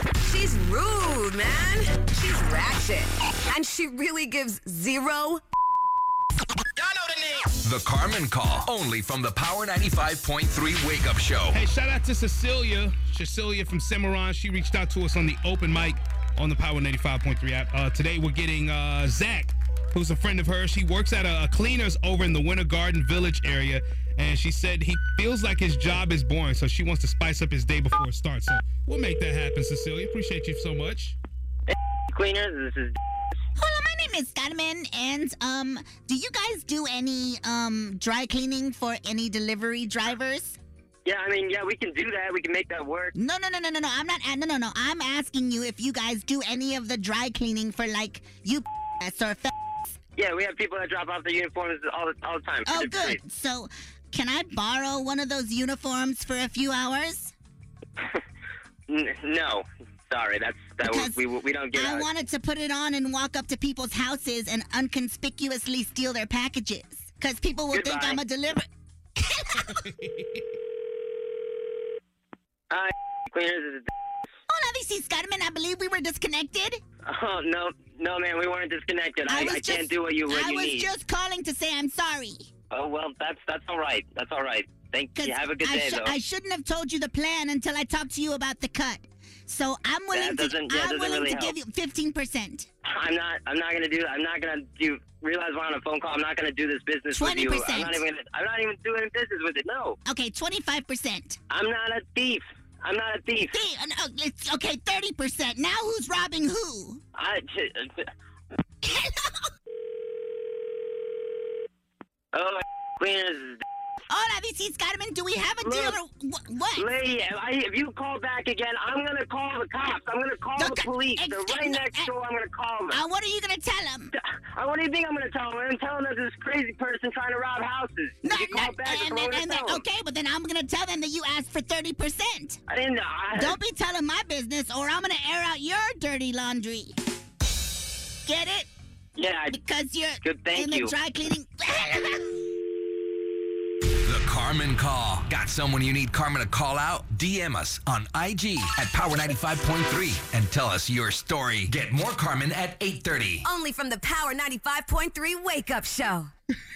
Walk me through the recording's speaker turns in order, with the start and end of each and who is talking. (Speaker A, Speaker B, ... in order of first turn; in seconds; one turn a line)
Speaker A: 0.2-5.4
Speaker B: 7.6-11.6
Speaker C: 11.5-31.1
Speaker D: 31.7-33.0
Speaker E: 33.6-40.6
Speaker D: 41.0-43.1
Speaker E: 43.1-49.9
Speaker D: 50.2-53.2
Speaker E: 52.6-57.3
Speaker D: 58.9-62.1
Speaker E: 60.8-61.2
Speaker E: 61.7-69.8
Speaker D: 67.7-68.2
Speaker C: 69.7-70.0
Speaker D: 72.7-73.9
Speaker E: 74.5-76.8
Speaker D: 77.0-80.9
Speaker E: 79.3-82.4
Speaker D: 82.7-86.1
Speaker E: 85.2-92.7
Speaker D: 90.1-91.5
Speaker D: 92.9-100.0
Speaker E: 97.1-98.0
Speaker E: 100.0-101.4
Speaker D: 101.5-103.5
Speaker E: 103.5-107.0
Speaker D: 107.1-108.1
Speaker E: 108.8-109.4
Speaker D: 112.3-113.6
Speaker E: 114.1-116.9
Speaker D: 115.6-116.0
Speaker D: 116.8-123.0
Speaker E: 120.6-122.1
Speaker E: 122.9-124.1
Speaker D: 124.1-129.8
Speaker E: 128.2-132.6
Speaker D: 132.7-133.6
Speaker E: 133.3-136.9
Speaker E: 138.2-138.7
Speaker D: 139.2-139.6
Speaker E: 139.5-142.4
Speaker D: 140.2-140.9
Speaker B: 144.0-153.4
Speaker A: 153.4-156.3